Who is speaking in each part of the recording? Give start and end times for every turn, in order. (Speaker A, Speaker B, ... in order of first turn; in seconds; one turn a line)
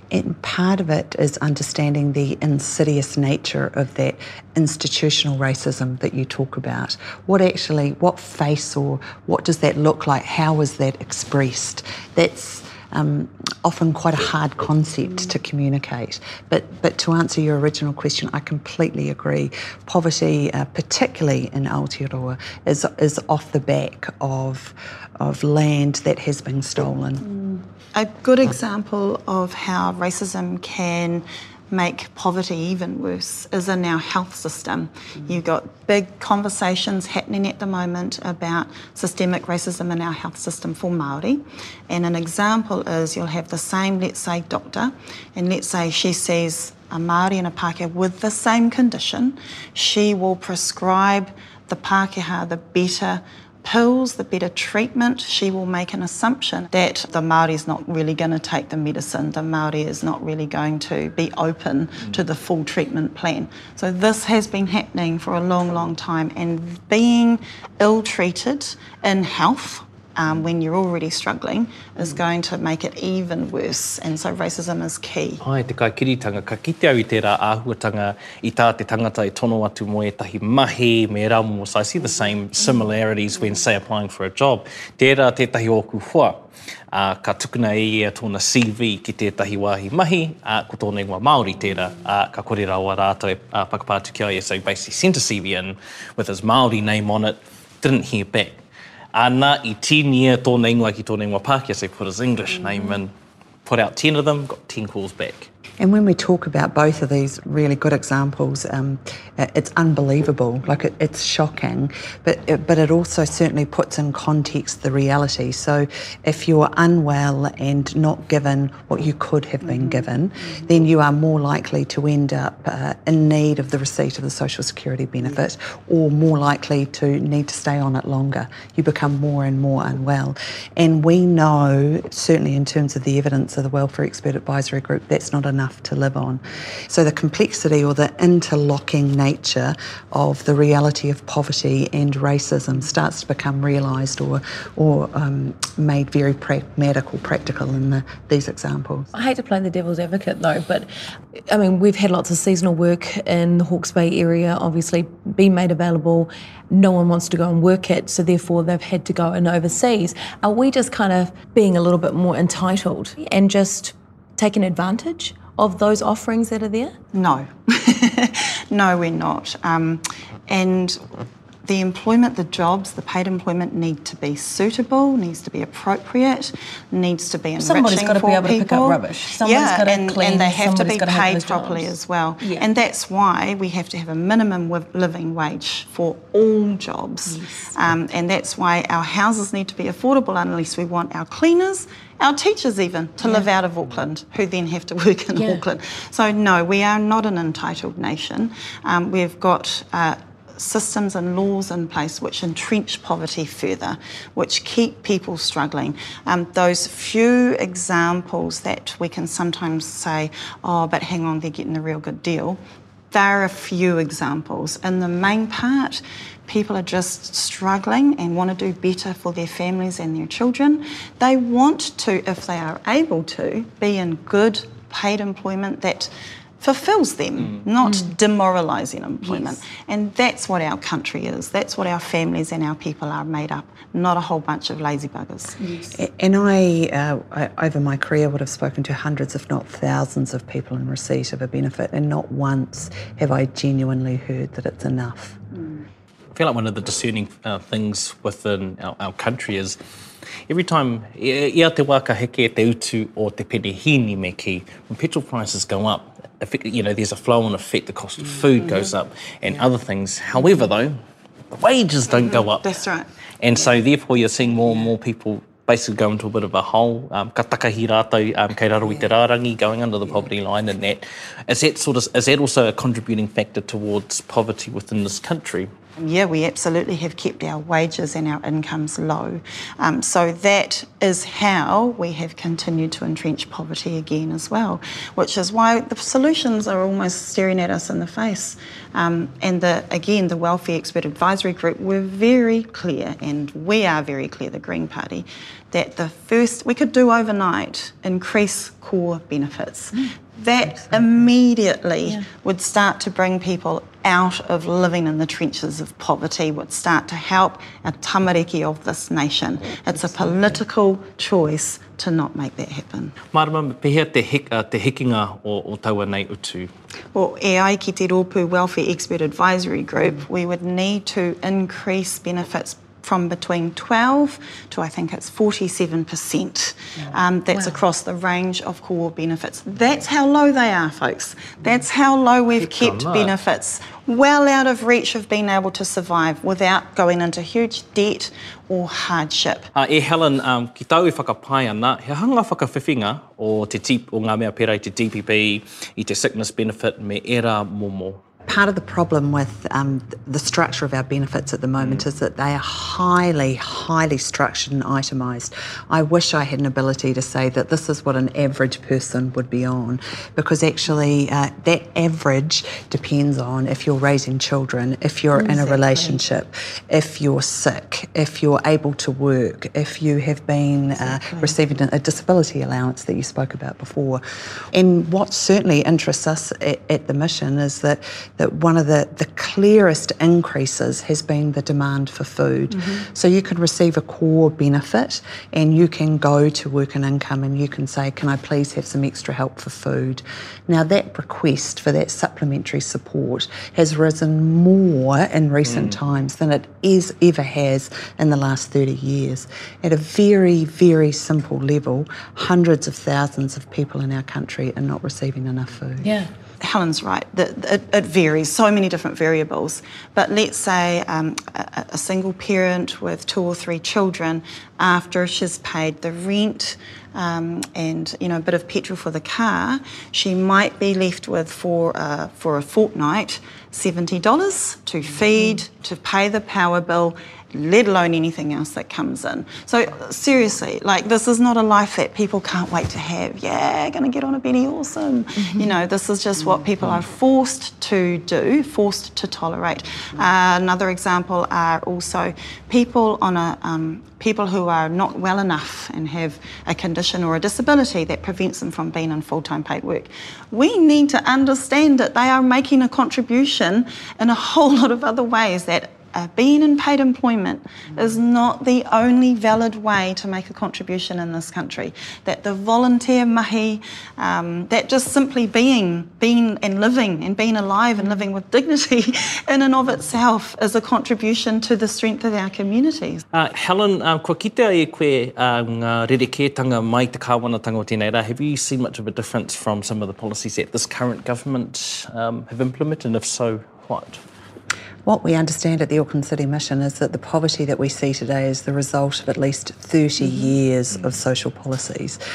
Speaker A: 0.1-27.3
Speaker B: 27.2-75.4
Speaker C: 75.4-98.6
Speaker C: 99.1-103.1
Speaker C: 103.6-105.5
Speaker A: 105.8-149.1
Speaker D: 149.1-150.9
Speaker D: 151.5-167.0
Speaker B: 167.1-171.0
Speaker B: 171.6-212.6
Speaker D: 177.6-182.7
Speaker D: 187.3-187.7
Speaker D: 195.3-195.6
Speaker B: 213.1-235.8
Speaker D: 227.8-228.1
Speaker D: 229.3-229.6
Speaker A: 235.9-245.4
Speaker C: 246.3-249.8
Speaker C: 250.5-261.0
Speaker C: 261.5-262.7
Speaker B: 262.1-263.1
Speaker C: 263.4-275.7
Speaker B: 276.0-313.1
Speaker C: 313.3-316.7
Speaker B: 317.1-339.7
Speaker C: 332.6-333.3
Speaker C: 339.8-348.2
Speaker A: 348.5-406.2
Speaker D: 365.4-366.2
Speaker B: 371.1-371.5
Speaker D: 406.0-406.3
Speaker B: 406.6-473.2
Speaker D: 435.4-435.7
Speaker C: 473.3-484.2
Speaker A: 485.0-492.2